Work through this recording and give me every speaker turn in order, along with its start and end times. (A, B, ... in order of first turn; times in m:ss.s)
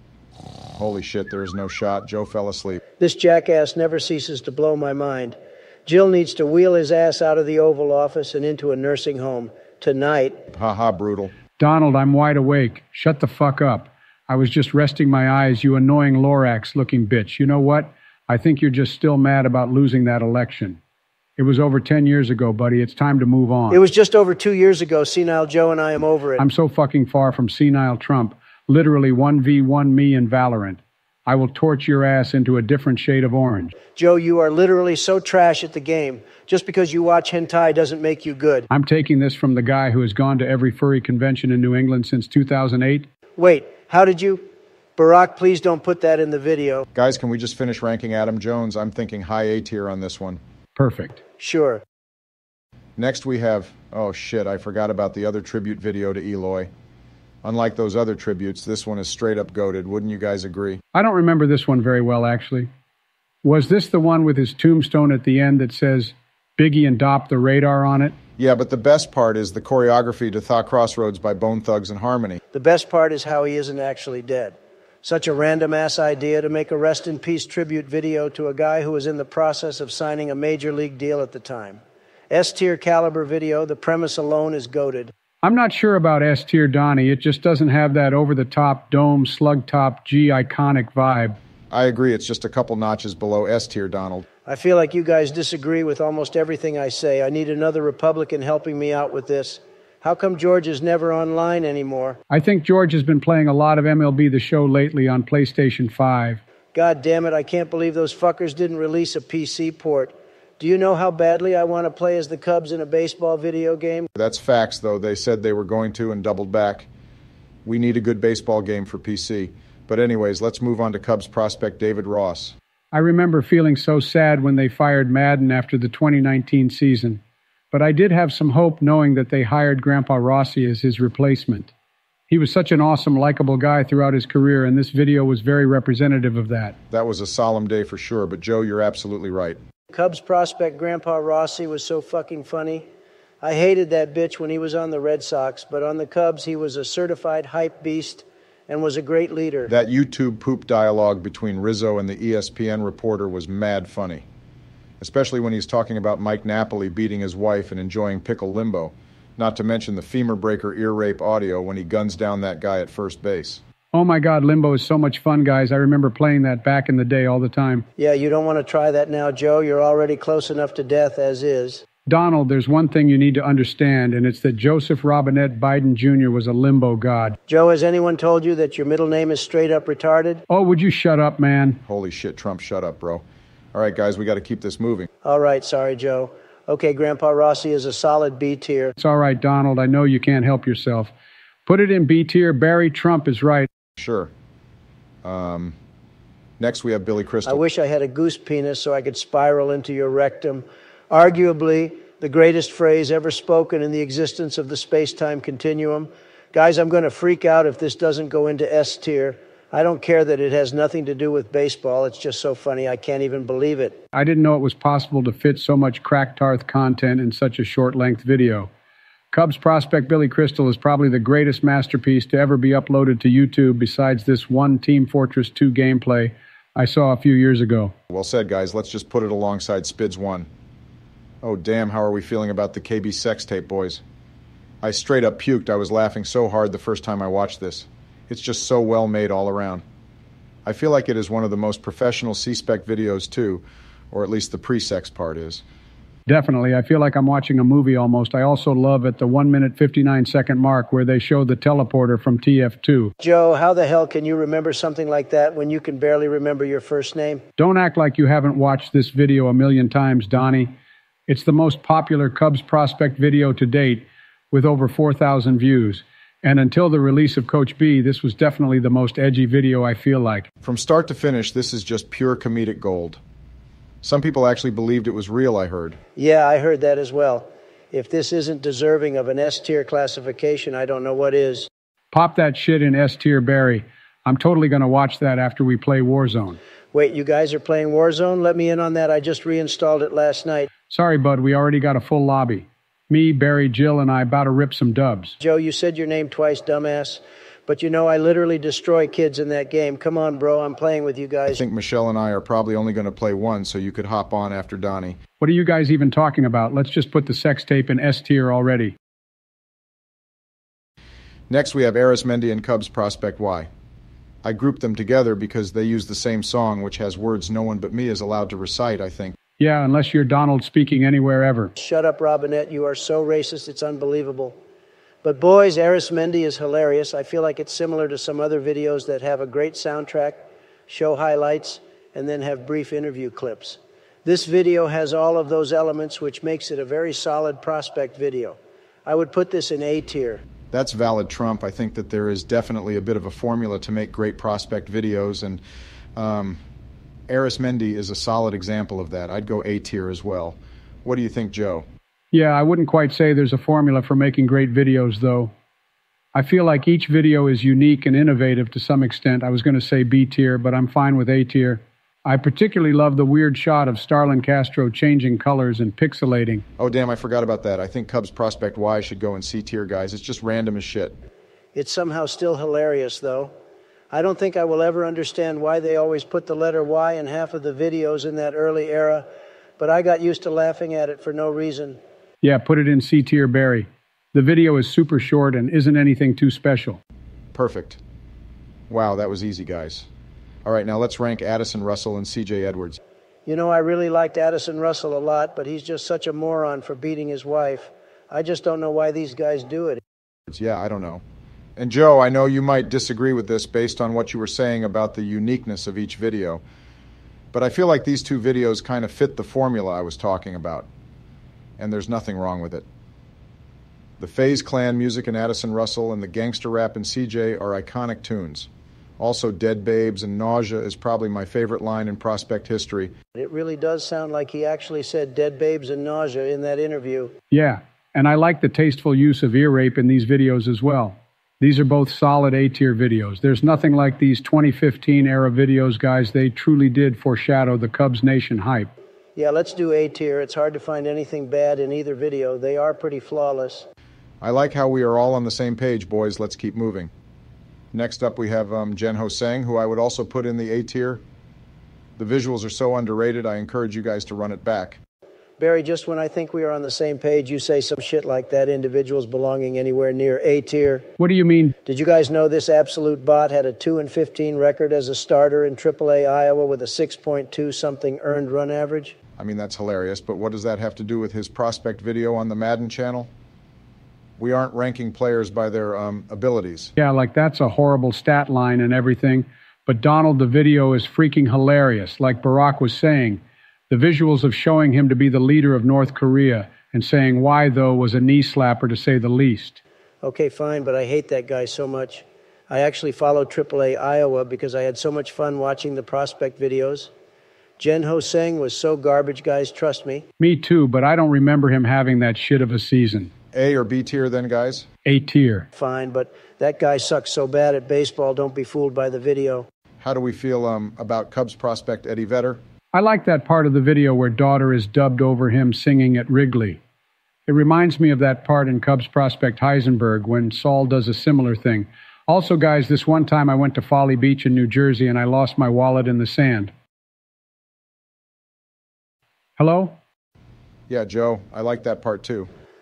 0:00.8-0:02.8 A
0:03.0-0:10.4 B
0:10.5-0:11.3 A
0:11.6-0:20.8 C
0:21.4-0:23.8 C
0:23.7-0:26.4 B
0:26.4-0:33.8 C
0:34.0-0:38.7 B
0:38.7-0:43.1 C
0:43.4-0:46.9 B
0:47.0-0:50.4 A
0:50.8-0:51.2 C
0:51.4-0:51.8 B
0:53.0-0:56.7 A
0:57.4-1:00.8 A
1:00.9-1:02.7 C
1:03.4-1:08.2 C
1:08.4-1:12.4 A
1:12.5-1:25.1 B
1:25.4-1:31.4 C
1:31.7-1:34.2 A
1:34.5-1:42.2 B
1:42.3-1:46.4 C
1:46.7-1:54.1 B
1:54.2-1:56.9 A
1:57.6-2:02.6 A
2:02.9-2:07.2 C
2:07.7-2:11.7 C
2:12.3-2:16.8 C
2:16.9-2:19.6 A
2:19.9-2:22.9 B
2:23.4-2:29.7 B
2:29.7-2:34.2 A
2:35.0-2:43.6 A
2:43.9-2:47.9 C
2:48.0-2:51.8 B
2:52.1-2:57.4 C
2:57.5-3:00.4 B
3:00.5-3:01.8 C
3:01.8-3:03.2 A
3:03.7-3:05.1 A
3:05.2-3:09.0 B
3:09.0-3:11.1 C
3:11.7-3:13.7 C
3:14.0-3:14.3 A
3:15.2-3:15.8 A
3:16.6-3:17.6 A
3:17.4-3:34.0 B
3:34.1-3:38.7 C
3:39.3-3:48.0 C
3:48.1-3:50.5 A
3:51.4-3:54.0 A
3:54.8-3:59.8 A
4:00.6-4:05.6 A
4:06.3-4:13.1 C
4:13.2-4:17.4 B
4:17.6-4:20.8 C
4:21.3-4:30.5 C
4:30.6-4:33.2 A
4:34.0-4:36.0 A
4:36.2-4:41.7 B
4:42.1-4:46.6 C
4:46.9-4:50.7 B
4:50.9-4:55.4 C
4:55.4-5:01.6 B
5:01.6-5:05.2 A
5:05.4-5:09.0 C
5:11.5-5:13.7 A
5:14.4-5:19.4 A
5:19.6-5:21.7 C
5:21.8-5:24.6 B
5:25.2-5:40.4 B
5:40.7-5:45.6 A
5:46.2-5:46.6 A
5:47.3-5:51.9 A
5:52.3-5:55.5 C
5:56.3-6:06.6 C
6:06.8-6:11.2 A
6:11.8-6:13.5 B
6:14.1-6:19.3 B
6:19.8-6:22.0 B
6:22.4-6:27.0 C
6:27.5-6:28.0 A
6:28.9-6:30.1 A
6:30.6-6:33.0 A
6:33.5-6:40.0 B
6:40.5-6:41.2 A
6:41.8-6:46.6 A
6:47.5-6:50.9 A
6:51.8-6:52.8 A
6:54.2-7:03.1 A
7:03.4-7:07.3 B
7:07.5-7:18.9 C
7:19.4-7:23.9 B
7:24.4-7:27.1 A
7:27.9-7:31.2 A
7:32.2-7:35.0 A
7:35.6-7:41.1 B
7:41.2-7:41.8 C
7:41.9-7:49.2 B
7:49.4-7:53.3 A
7:54.4-7:56.9 A
7:57.0-8:09.8 C
8:10.2-8:17.1 B
8:17.8-8:20.2 B
8:20.4-8:23.3 C
8:23.5-8:24.9 A
8:25.0-8:25.7 C
8:25.8-8:29.7 B
8:30.0-8:32.6 A
8:32.9-8:36.8 C
8:37.5-8:46.7 C
8:49.6-8:50.0 C
8:50.9-8:52.5 A